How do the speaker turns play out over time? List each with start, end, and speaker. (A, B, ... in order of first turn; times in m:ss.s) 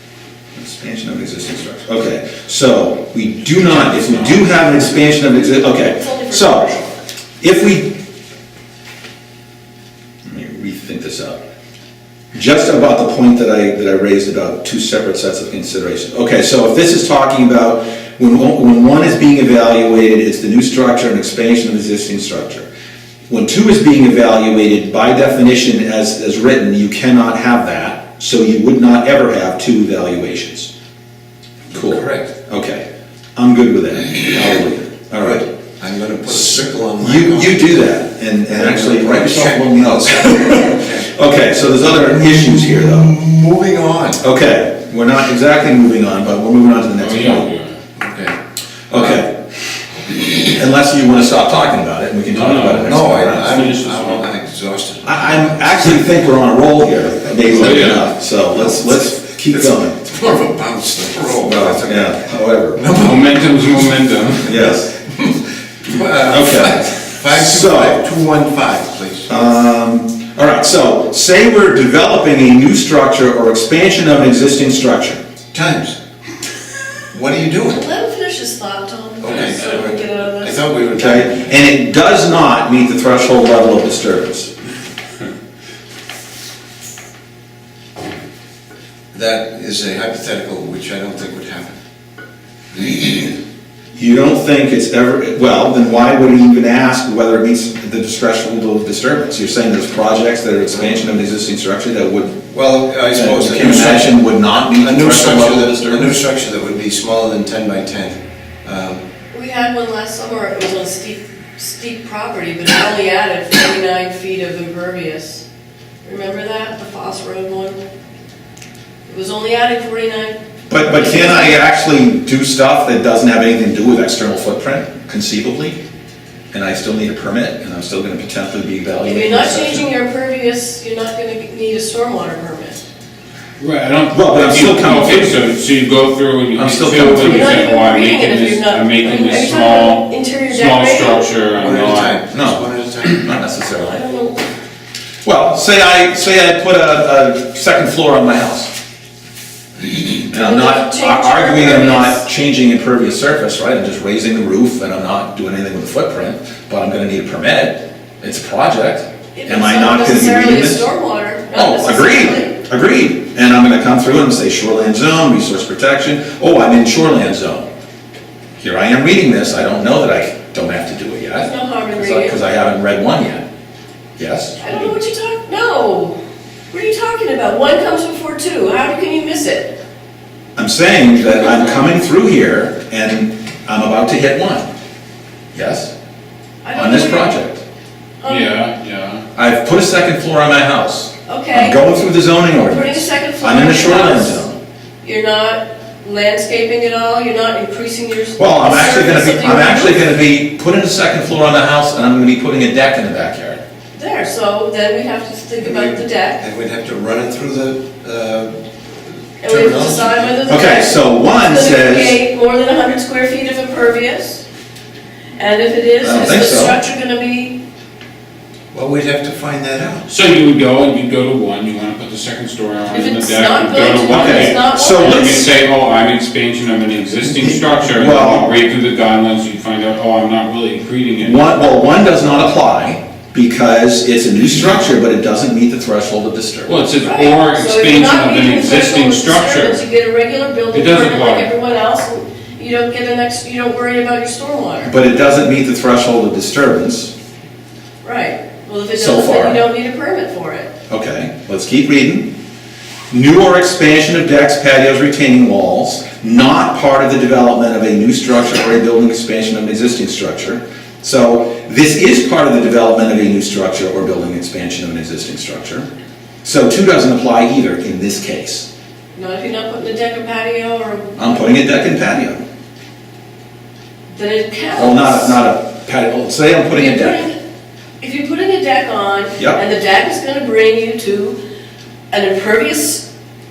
0:00.6-0:06.7 A
0:03.7-0:04.4 B
0:05.7-0:07.0 C
0:07.4-0:08.0 A
0:10.2-0:11.4 A
0:12.3-0:22.7 A
0:23.3-0:30.7 A
0:31.7-0:32.3 D
0:31.7-0:35.5 A
0:35.2-0:37.9 D
0:36.3-0:43.1 A
0:38.5-0:41.1 D
0:41.8-0:44.2 D
0:44.2-0:47.5 A
0:47.0-0:47.8 B
0:48.0-0:48.4 D
0:48.9-0:49.3 A
0:50.1-0:53.5 A
0:52.3-0:54.3 B
0:52.7-0:55.7 D
0:55.0-1:00.0 A
0:57.4-0:58.1 B
1:00.0-1:02.1 D
1:01.4-1:02.8 A
1:02.7-1:03.5 D
1:02.9-1:04.5 B
1:04.4-1:04.9 A
1:05.1-1:09.3 D
1:06.3-1:08.1 A
1:09.3-1:15.2 A
1:15.5-1:16.0 D
1:17.1-1:17.8 D
1:17.7-1:20.7 C
1:19.2-1:21.5 D
1:20.9-1:24.5 A
1:29.1-1:31.8 D
1:32.7-1:33.3 D
1:34.0-1:42.4 A
1:42.5-1:44.2 D
1:43.1-1:46.1 A
1:44.7-1:49.1 D
1:49.3-1:55.4 C
1:56.0-1:57.8 C
1:59.1-2:00.4 C
2:00.7-2:05.8 A
2:00.9-2:01.6 C
2:06.5-2:09.9 A
2:09.0-2:12.8 C
2:13.6-2:22.2 B
2:14.1-2:15.4 A
2:16.6-2:17.6 A
2:16.9-2:21.3 C
2:21.6-2:23.2 D
2:22.3-2:24.0 A
2:23.8-2:24.4 C
2:25.2-2:28.7 A
2:30.2-2:40.9 A
2:30.3-2:32.2 C
2:39.4-2:42.6 C
2:41.5-2:47.7 A
2:48.6-2:53.4 A
2:51.3-2:52.4 C
2:54.2-2:54.8 A
2:54.6-2:56.2 C
2:56.7-2:59.8 C
3:00.6-3:04.7 A
3:05.5-3:05.9 A
3:06.6-3:07.4 C
3:06.8-3:07.6 A
3:08.2-3:08.5 C
3:08.3-3:09.2 B
3:09.4-3:14.6 A
3:11.3-3:11.8 C
3:12.6-3:14.4 C
3:15.0-3:20.0 C
3:18.4-3:23.6 A
3:23.9-3:26.4 C
3:25.6-3:28.5 D
3:29.4-3:30.4 D
3:29.4-3:34.4 C
3:30.5-3:32.2 A
3:35.4-3:37.6 C
3:36.0-3:36.8 A
3:38.7-3:40.1 D
3:40.1-3:51.4 B
3:42.9-3:45.5 C
3:44.1-3:45.5 A
3:47.3-3:48.5 A
3:51.2-3:56.7 A
3:56.7-3:59.8 B
3:57.0-4:04.9 C
4:00.7-4:01.5 B
4:04.8-4:07.1 A
4:08.0-4:10.7 C
4:08.9-4:09.6 A
4:10.9-4:12.3 A
4:13.1-4:25.9 A
4:26.4-4:28.7 A
4:29.1-4:31.4 C
4:31.2-4:32.4 A
4:34.1-4:35.4 C
4:34.8-4:37.3 A
4:36.7-4:37.4 C
4:38.0-4:41.4 C
4:42.1-4:43.0 C